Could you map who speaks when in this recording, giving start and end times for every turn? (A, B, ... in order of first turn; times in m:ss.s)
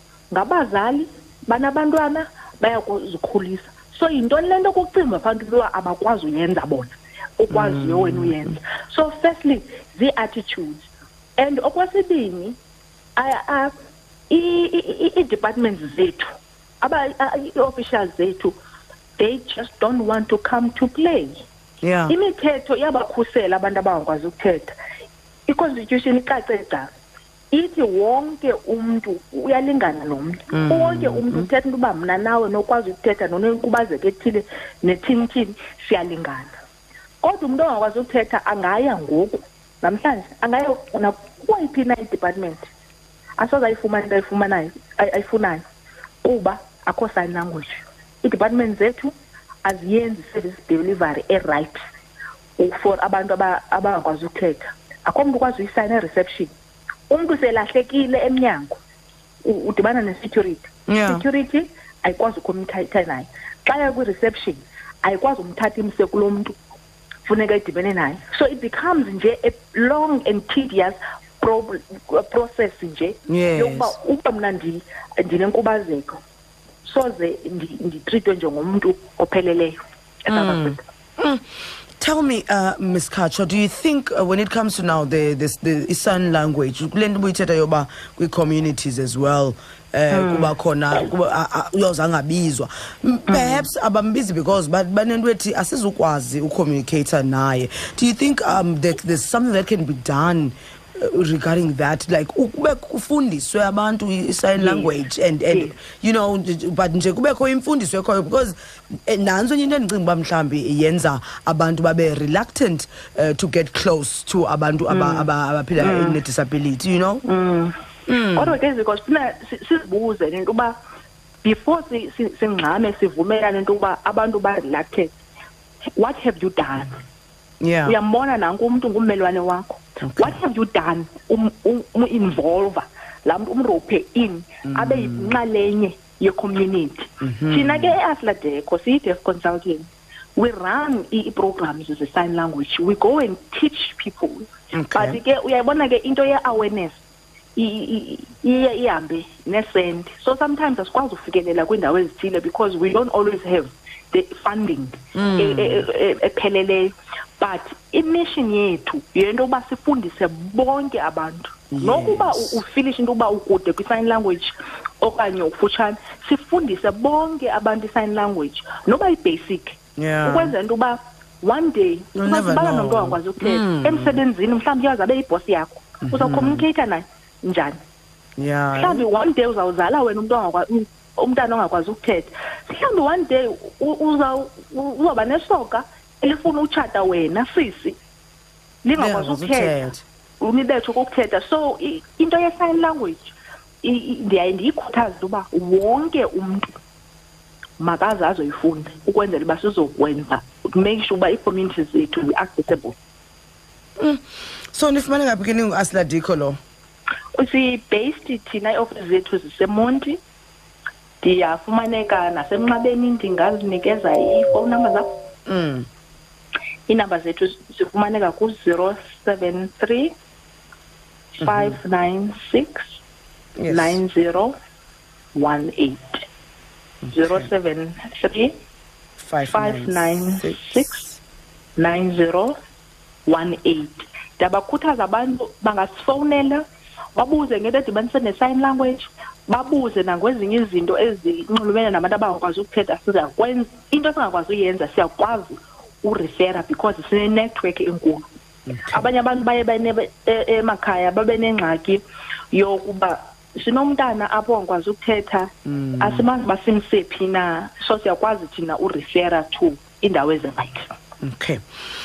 0:00.3-0:12.6 A
0:07.5-0:08.6 B
0:13.2-0:13.7 A
0:14.3-0:18.5 A
0:19.2-0:21.4 A
0:21.8-0:22.1 B
0:22.1-0:24.7 A
0:25.5-0:26.9 A
0:27.5-0:36.5 A
0:30.5-0:31.5 B
0:37.2-0:42.7 A
0:43.4-0:45.6 A
0:46.2-0:49.1 A
0:49.6-0:51.8 A
0:52.6-0:56.5 A
0:57.1-0:58.8 A
0:59.4-1:06.5 A
1:00.9-1:01.2 B
1:07.2-1:16.2 A
1:13.3-1:13.9 B
1:16.8-1:19.8 A
1:20.3-1:20.8 A
1:20.3-1:21.4 B
1:22.0-1:48.6 B
1:30.1-1:30.5 A
1:33.3-1:33.7 A
1:44.5-1:45.0 A
1:45.5-1:45.8 A
1:49.1-1:57.2 B
1:54.9-1:56.2 A
1:57.2-1:57.7 A
1:58.1-1:58.6 B
1:58.3-2:00.7 A
2:01.4-2:05.1 A
2:06.0-2:06.9 A
2:07.6-2:08.0 B
2:07.8-2:27.0 A
2:10.0-2:10.4 B
2:14.6-2:15.4 B
2:17.2-2:18.0 B
2:24.7-2:25.2 B
2:27.6-2:57.8 A
2:35.1-2:35.9 B
2:41.7-2:42.6 B
2:50.0-2:50.5 B
2:52.1-2:54.2 B
2:56.0-2:56.6 B
2:58.4-2:59.0 B
2:58.7-3:08.0 A
3:08.8-3:09.8 A
3:09.0-3:10.0 B
3:10.4-3:16.7 A
3:17.8-3:23.0 A
3:24.7-3:26.6 B
3:27.3-3:30.2 A
3:31.2-3:35.1 A
3:35.5-3:35.9 B
3:36.9-3:40.1 A
3:41.4-3:43.0 A
3:41.4-3:41.8 B
3:43.6-3:44.0 B
3:43.7-3:44.5 A
3:45.3-3:46.2 A
3:47.0-3:47.5 B
3:47.1-3:48.5 A
3:49.2-3:51.1 B
3:49.5-3:51.1 A
3:51.8-3:52.5 A
3:53.2-3:56.6 A
3:57.1-4:08.2 A
4:08.6-4:09.1 B
4:08.9-4:20.9 A
4:15.6-4:16.2 B
4:21.2-4:21.6 B